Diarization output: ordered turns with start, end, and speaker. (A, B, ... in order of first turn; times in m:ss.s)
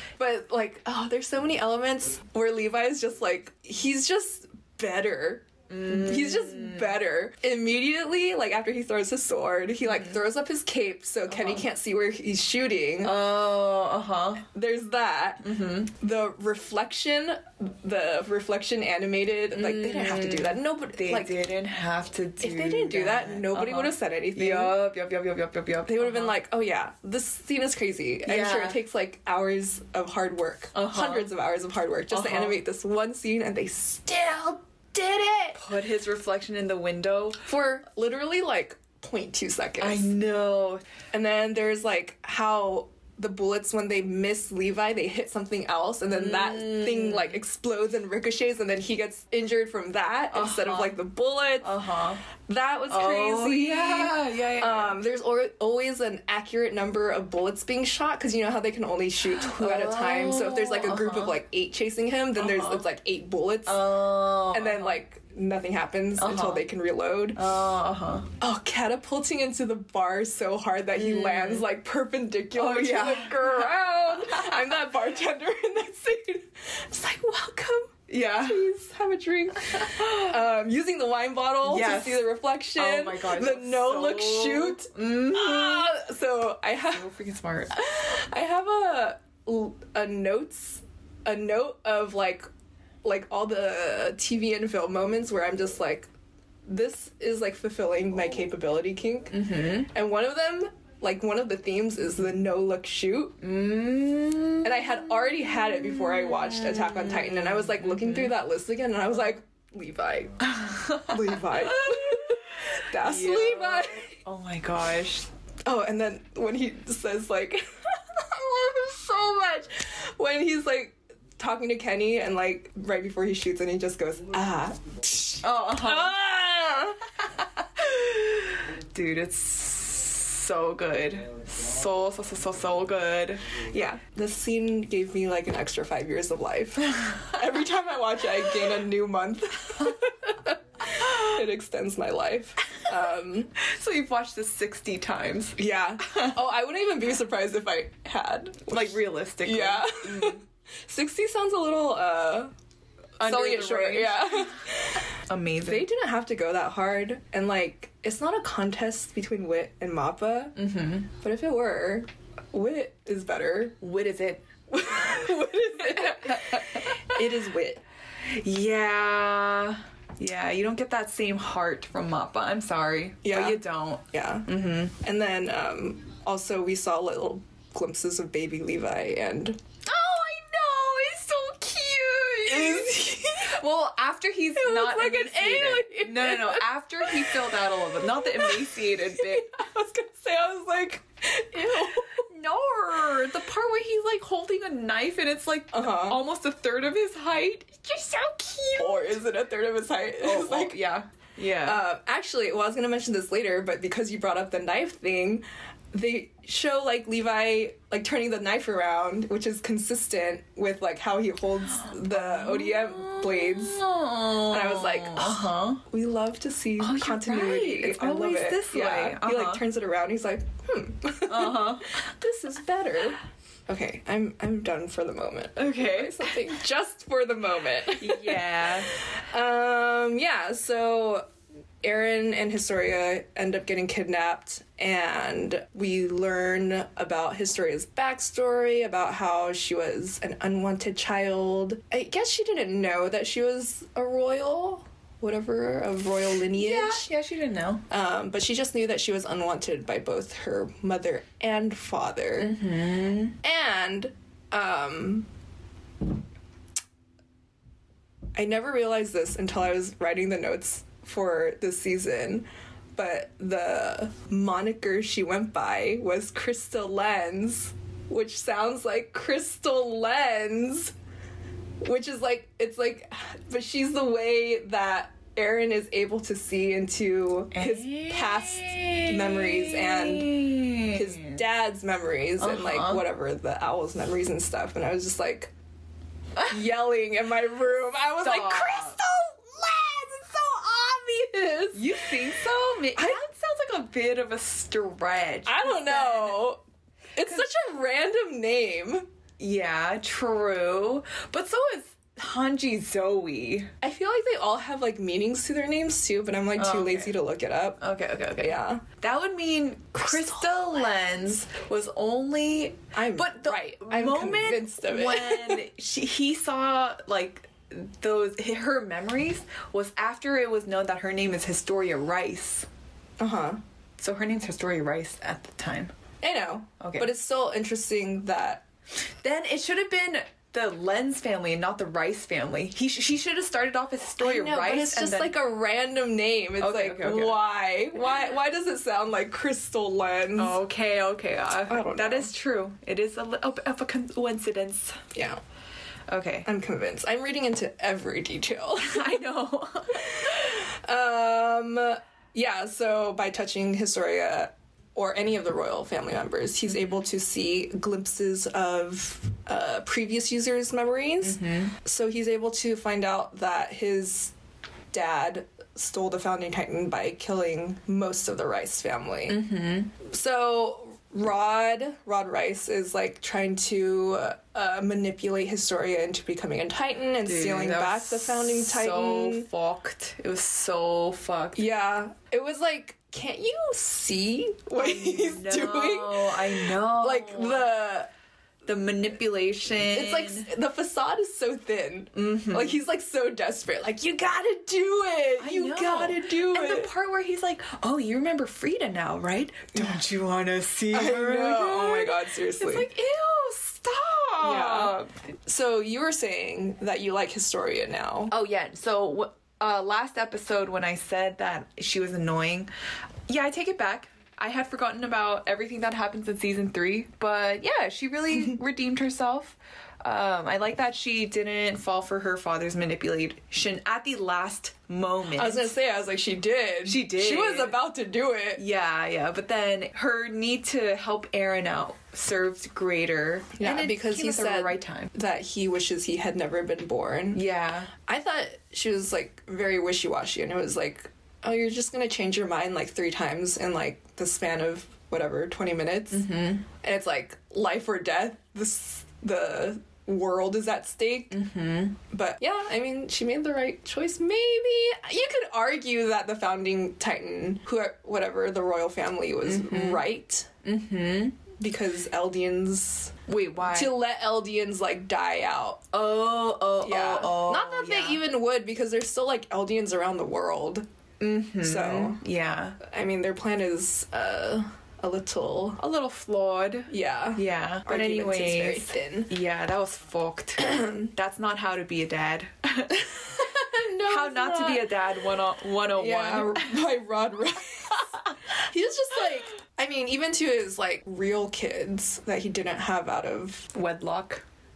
0:00.2-0:13.1 A
0:05.7-0:06.9 B
0:11.4-0:11.6 B
0:13.0-0:14.4 B
0:14.4-0:21.4 A
0:15.4-0:15.9 B
0:19.5-0:26.3 B
0:22.4-0:24.8 A
0:25.9-0:35.6 A
0:28.2-0:28.8 B
0:30.7-0:31.3 B
0:32.1-0:32.6 B
0:35.5-0:37.4 B
0:37.4-0:40.1 A
0:39.8-0:40.8 B
0:41.1-0:51.7 A
0:46.1-0:47.4 B
0:50.3-0:51.0 B
0:51.6-0:52.2 B
0:52.4-1:07.4 A
0:52.9-0:55.0 B
0:59.2-1:01.4 B
1:02.4-1:02.8 B
1:03.6-1:05.0 B
1:06.2-1:06.6 B
1:07.4-1:08.3 B
1:08.4-1:27.1 A
1:11.0-1:11.6 B
1:12.5-1:14.8 B
1:18.1-1:18.7 B
1:19.7-1:20.4 B
1:21.6-1:25.9 B
1:26.9-1:27.8 B
1:27.7-1:32.4 A
1:33.0-1:36.1 A
1:36.6-1:43.4 A
1:39.3-1:39.9 B
1:43.4-1:48.3 B
1:44.6-1:50.4 A
1:50.4-1:55.3 B
1:51.0-1:54.1 A
1:55.6-2:07.0 A
2:05.4-2:06.1 B
2:07.7-2:13.6 B
2:13.7-2:23.6 A
2:23.6-2:26.4 B
2:25.6-2:32.5 A
2:28.7-2:30.4 B
2:33.2-2:34.6 B
2:33.2-2:35.1 A
2:35.3-2:35.8 B
2:35.6-2:40.6 A
2:40.5-2:41.1 B
2:41.1-2:43.8 A
2:43.8-2:45.2 B
2:44.7-2:47.8 A
2:45.8-2:47.2 B
2:48.2-2:55.0 B
2:53.2-2:59.6 A
2:59.8-3:09.5 B
3:02.4-3:03.5 A
3:04.5-3:12.2 A
3:12.1-3:19.2 B
3:15.7-3:16.2 A
3:18.8-3:20.8 A
3:20.2-3:21.8 B
3:21.6-3:33.8 A
3:31.7-3:35.8 B
3:34.4-3:51.2 A
3:36.8-3:39.6 B
3:41.2-3:42.1 B
3:45.6-3:46.6 B
3:48.0-3:49.0 B
3:51.8-4:07.0 A
4:06.5-4:07.8 B
4:07.9-4:12.6 A
4:12.4-4:13.4 B
4:13.4-4:15.3 A
4:18.4-4:30.9 A
4:31.8-4:45.5 A
4:37.5-4:41.4 B
4:42.4-4:43.0 B
4:46.4-4:52.1 A
4:48.2-4:49.0 B
4:51.7-4:56.4 B
4:53.0-4:53.2 A
4:55.4-4:56.6 A
4:57.2-4:59.0 A
4:59.4-5:03.7 B
5:03.8-5:07.8 A
5:06.6-5:07.1 B
5:07.8-5:22.7 B
5:08.4-5:08.8 A
5:09.9-5:10.6 A
5:12.9-5:15.6 A
5:23.2-5:23.6 A
5:24.0-5:25.9 B
5:26.2-5:28.6 A
5:26.8-5:27.1 B
5:29.2-5:35.3 B
5:34.2-5:40.6 A
5:36.6-5:37.4 B
5:40.4-5:45.1 B
5:41.6-5:42.3 A
5:45.1-5:45.4 A
5:46.1-5:46.5 B
5:46.4-5:49.2 A
5:48.9-5:50.5 B
5:49.9-6:04.3 A
6:01.2-6:01.7 B
6:04.9-6:09.4 A
6:09.3-6:09.9 B
6:10.0-6:19.5 A
6:17.2-6:21.6 B
6:21.5-6:28.1 A
6:24.8-6:27.7 B
6:28.6-6:30.5 B
6:29.8-6:36.9 A
6:32.1-6:32.8 B
6:35.4-6:45.1 B
6:40.9-6:42.9 A
6:44.4-6:48.3 A
6:48.3-6:52.7 B
6:53.3-7:05.7 B
7:05.3-7:08.6 A
7:06.8-7:07.8 B
7:08.6-7:15.1 B
7:13.6-7:17.4 A
7:17.3-7:17.9 B
7:18.0-7:31.4 A
7:26.1-7:26.6 B
7:31.3-7:32.0 B
7:32.1-7:40.5 A
7:39.4-7:40.0 B
7:40.6-7:41.4 B
7:41.6-7:45.9 A
7:43.3-7:44.0 B
7:45.9-7:48.2 B
7:46.8-7:50.8 A
7:51.2-7:52.8 B
7:51.6-7:52.2 A
7:52.8-7:55.8 A
7:55.8-8:06.8 B
7:56.9-7:59.3 A
8:00.6-8:01.1 A
8:03.3-8:05.0 A
8:05.9-8:13.7 A
8:13.7-8:14.4 B